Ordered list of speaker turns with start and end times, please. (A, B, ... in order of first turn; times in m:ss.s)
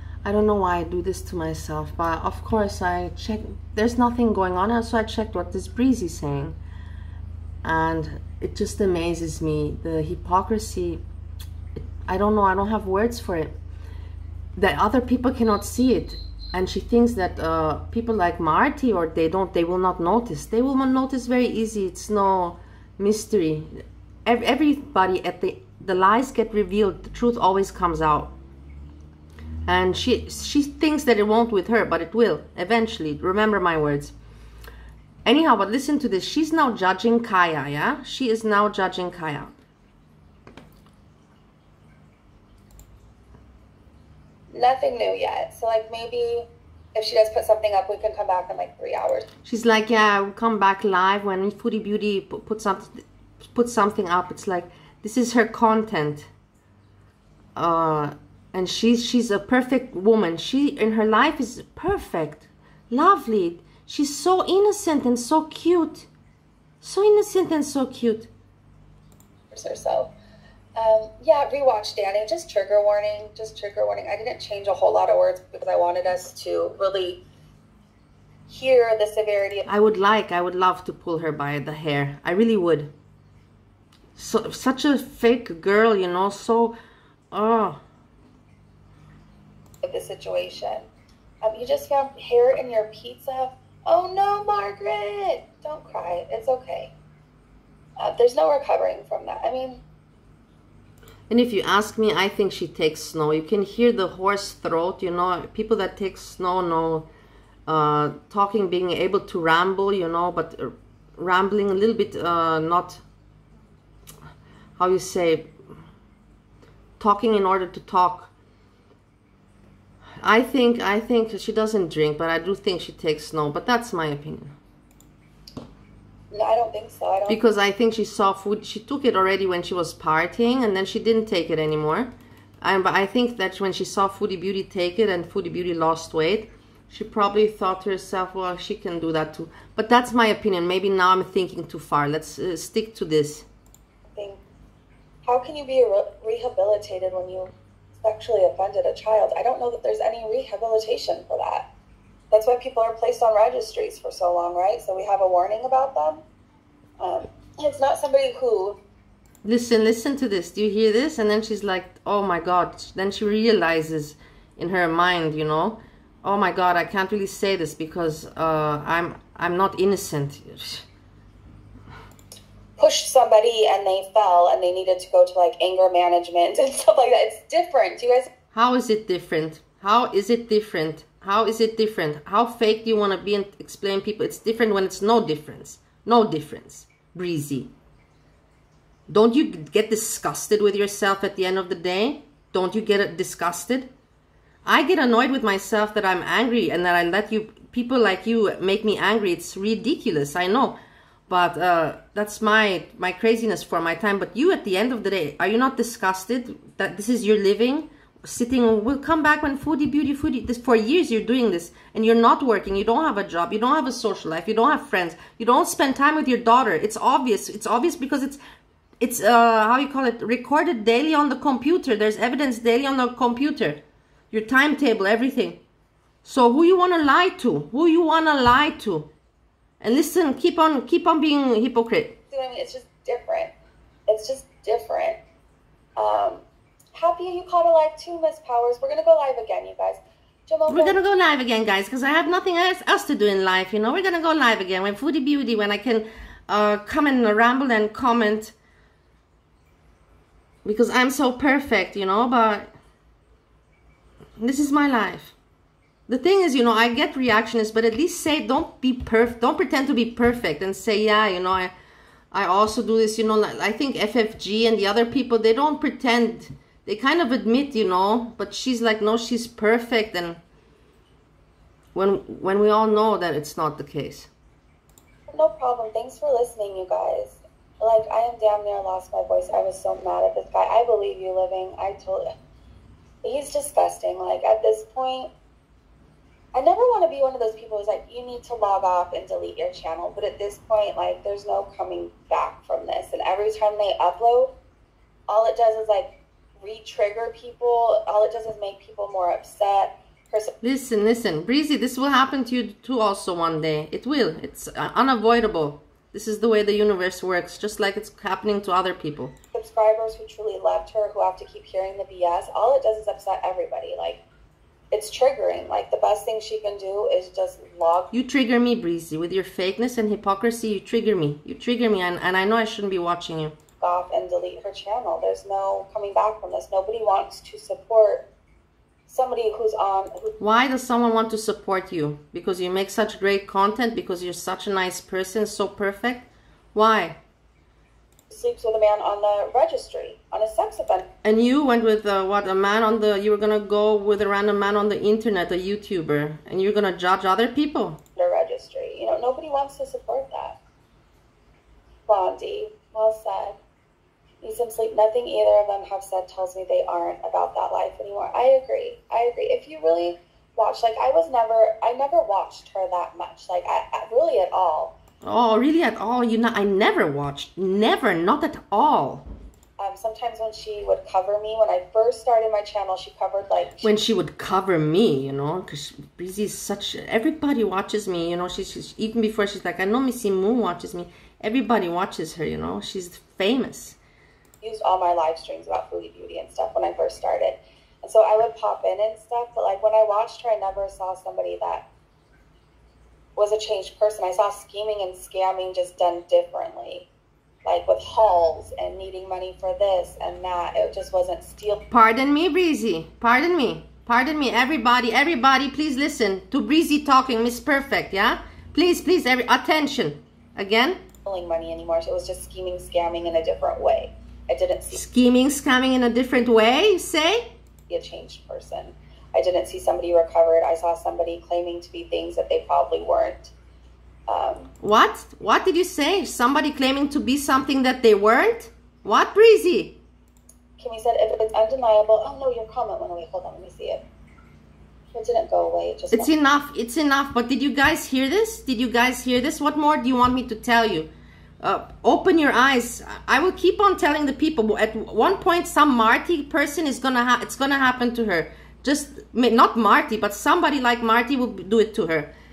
0:00.2-0:06.6 A
0:07.6-0:11.0 A
0:12.0-0:13.5 A
0:14.6-0:28.3 A
0:29.7-0:34.2 A
0:35.2-0:39.5 A
0:44.5-0:49.3 B
0:49.4-0:56.3 A
0:57.6-1:06.1 A
1:06.8-1:08.3 A
1:09.5-1:10.1 B
1:10.8-1:17.2 B
1:18.5-1:19.6 B
1:19.7-1:22.9 A
1:24.2-1:26.8 A
1:27.3-1:27.8 A
1:29.8-1:30.9 B
1:31.4-1:36.9 B
1:38.0-1:39.8 B
1:41.3-1:47.1 A
1:47.7-1:53.0 A
1:54.8-1:55.5 A
1:57.0-1:58.3 A
2:00.2-2:04.5 A
2:06.3-2:07.4 B
2:07.3-2:23.5 A
2:24.2-2:24.4 B
2:25.2-2:31.7 B
2:32.3-2:36.2 B
2:37.0-2:38.8 B
2:39.4-2:50.8 A
2:52.8-2:58.3 B
2:58.5-3:07.7 A
3:09.1-3:13.9 A
3:14.6-3:20.8 A
3:21.3-3:38.4 A
3:39.0-3:45.6 A
3:46.2-3:49.1 A
3:49.8-3:52.2 A
3:52.3-3:53.5 B
3:54.1-3:55.2 B
3:56.0-4:01.0 B
4:00.7-4:08.6 A
4:10.6-4:12.7 A
4:14.4-4:15.4 A
4:16.1-4:21.7 A
4:22.3-4:30.4 A
4:31.9-4:34.3 A
4:35.3-4:42.3 B
4:43.2-4:45.3 B
4:46.5-4:54.5 B
4:55.3-5:00.5 B
5:00.6-5:09.3 A
5:09.5-5:14.2 B
5:14.9-5:18.1 B
5:18.1-5:23.5 A
5:23.8-5:28.3 B
5:29.1-5:30.4 B
5:30.4-5:37.2 A
5:38.3-5:41.1 B
5:41.2-5:48.0 A
5:48.2-5:50.6 B
5:52.1-5:53.6 B
5:54.4-6:04.9 B
6:05.2-6:09.2 A
6:09.8-6:13.9 B
6:13.8-6:24.0 A
6:24.6-6:31.9 B
6:33.4-6:37.1 B
6:37.6-6:41.8 B
6:41.9-6:51.0 A
6:51.2-6:55.0 B
6:54.9-6:57.5 A
6:57.9-7:03.5 B
7:04.3-7:04.7 B
7:04.8-7:10.0 A
7:10.8-7:14.0 B
7:15.1-7:16.3 B
7:16.1-7:21.1 A
7:21.6-7:32.3 A